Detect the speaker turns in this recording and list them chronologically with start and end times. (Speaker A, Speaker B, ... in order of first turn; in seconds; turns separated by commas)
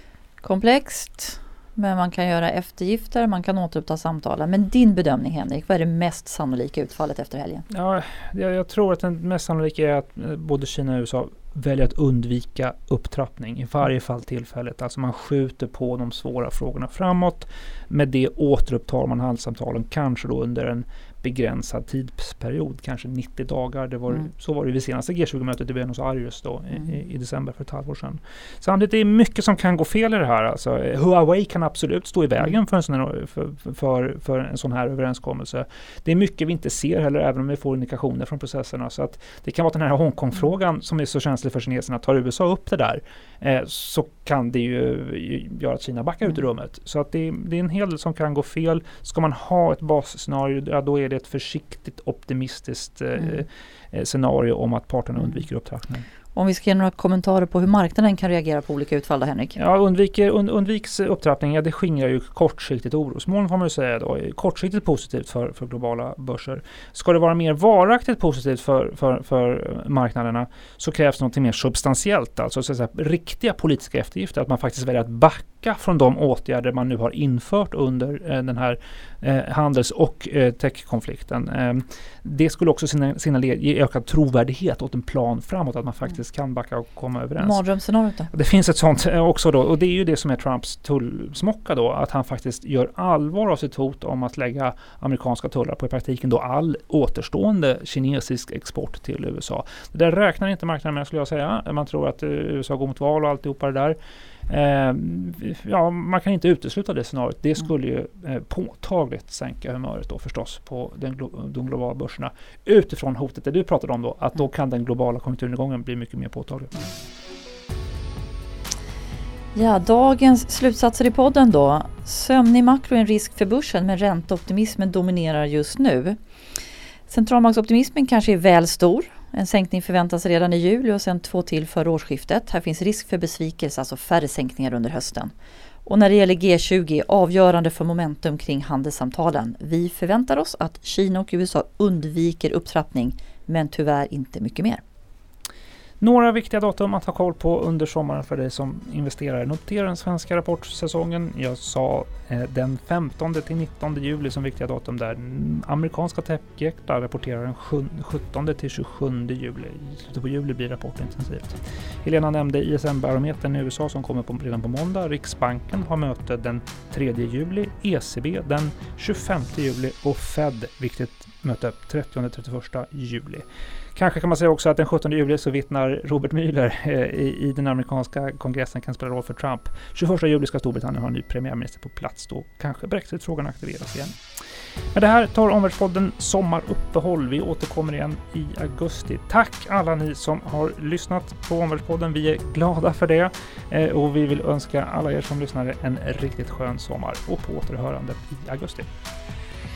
Speaker A: 0.4-7.7, Speaker B: 7.7-56.1, Speaker A: 53.2-53.4, Speaker A: 56.3-59.6, Speaker B: 59.6-87.6, Speaker A: 87.4-88.3, Speaker B: 88.3-104.0, Speaker B: 104.5-116.8, Speaker A: 119.5-126.2, Speaker A: 127.1-135.3, Speaker A: 135.8-144.8, Speaker B: 146.0-173.4, Speaker B: 174.0-184.2, Speaker B: 184.9-198.9